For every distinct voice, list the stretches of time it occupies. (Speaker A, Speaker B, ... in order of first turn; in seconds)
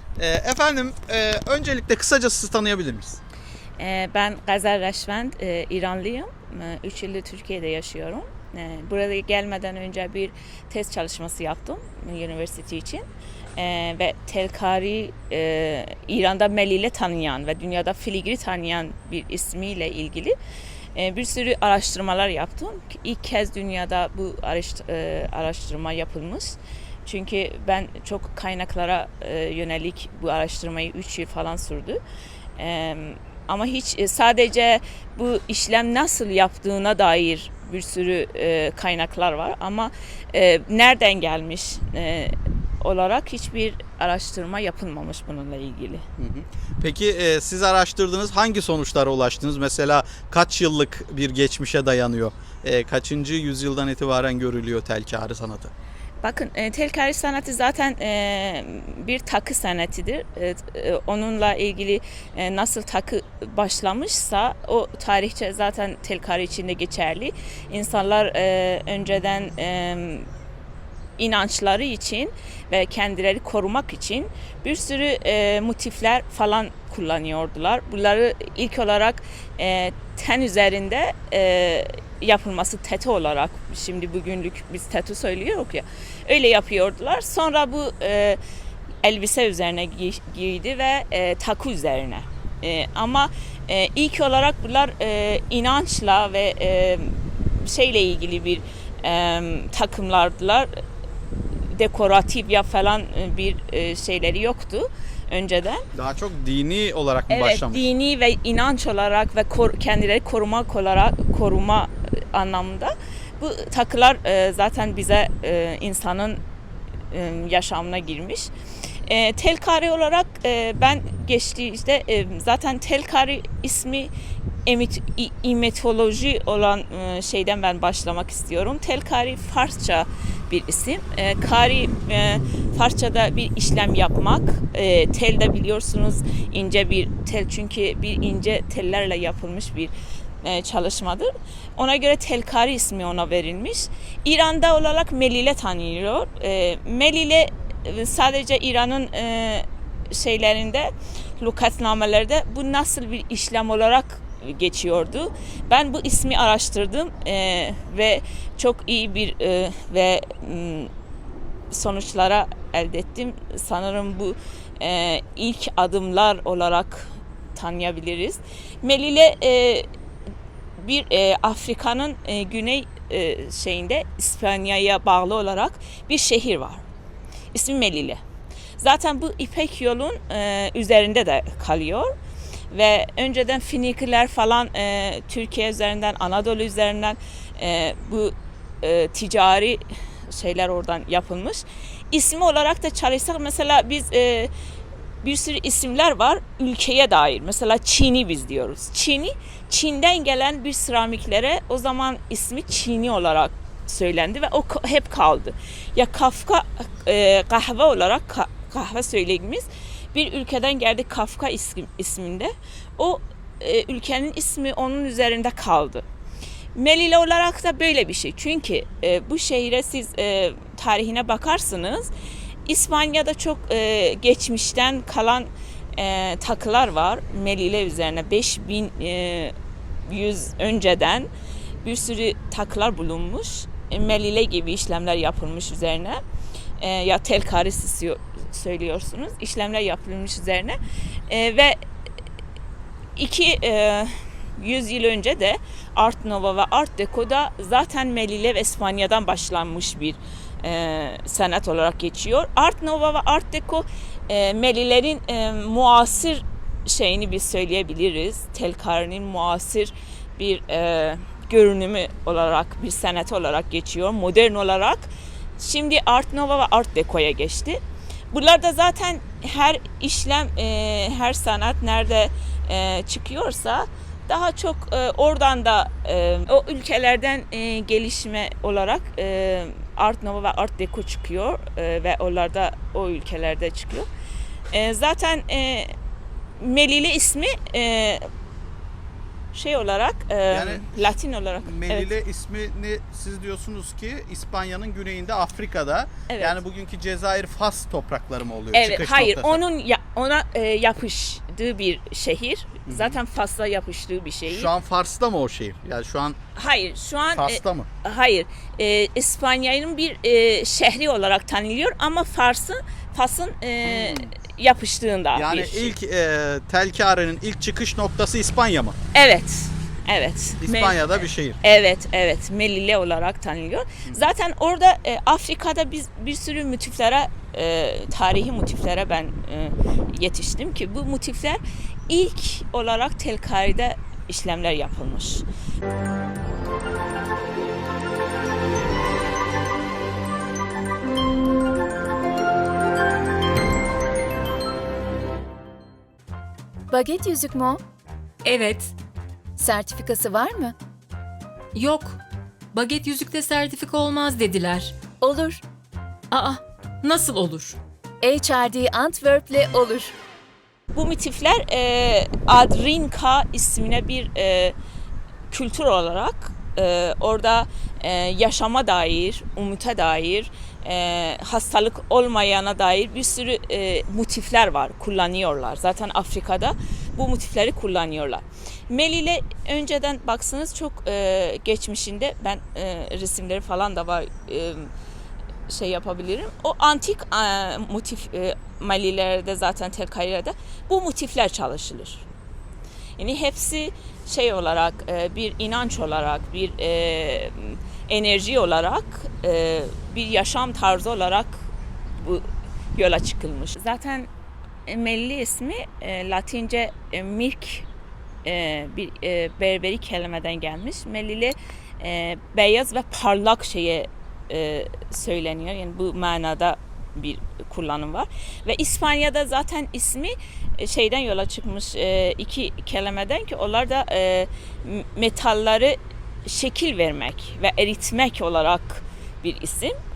Speaker A: 0.2-3.2, 46.2-55.7, 105.9-107.9, 290.5-299.6, 302.9-303.2, 304.5-306.4, 307.3-307.9, 313.8-314.3, 315.3-318.9, 320.6-321.6
Speaker B: 3.8-13.0, 13.6-20.3, 20.9-32.0, 32.6-46.0, 56.2-70.3, 71.2-88.4, 89.0-100.8, 101.7-105.9, 107.3-116.4, 117.1-118.5, 119.0-124.1, 124.7-160.9, 161.7-169.9, 170.8-176.8, 177.5-178.2, 178.8-182.1, 182.7-194.5, 195.2-216.0, 216.7-222.1, 222.7-229.5, 230.1-231.3, 231.8-236.2, 236.8-240.8, 241.3-241.8, 243.2-267.8, 268.3-284.1, 284.7-285.9, 286.6-288.3, 289.5-292.1, 296.3-296.6, 298.7-304.7, 306.5-315.9, 319.1-335.4, 360.9-364.7, 365.5-384.9, 385.7-392.2, 393.2-401.6, 402.2-404.3, 404.9-407.9, 408.4-429.9
Speaker C: 346.9-347.8, 349.6-350.7, 355.2-355.6, 358.2-360.1
Speaker D: 348.4-348.9, 351.7-352.2, 352.7-355.1, 356.3-357.8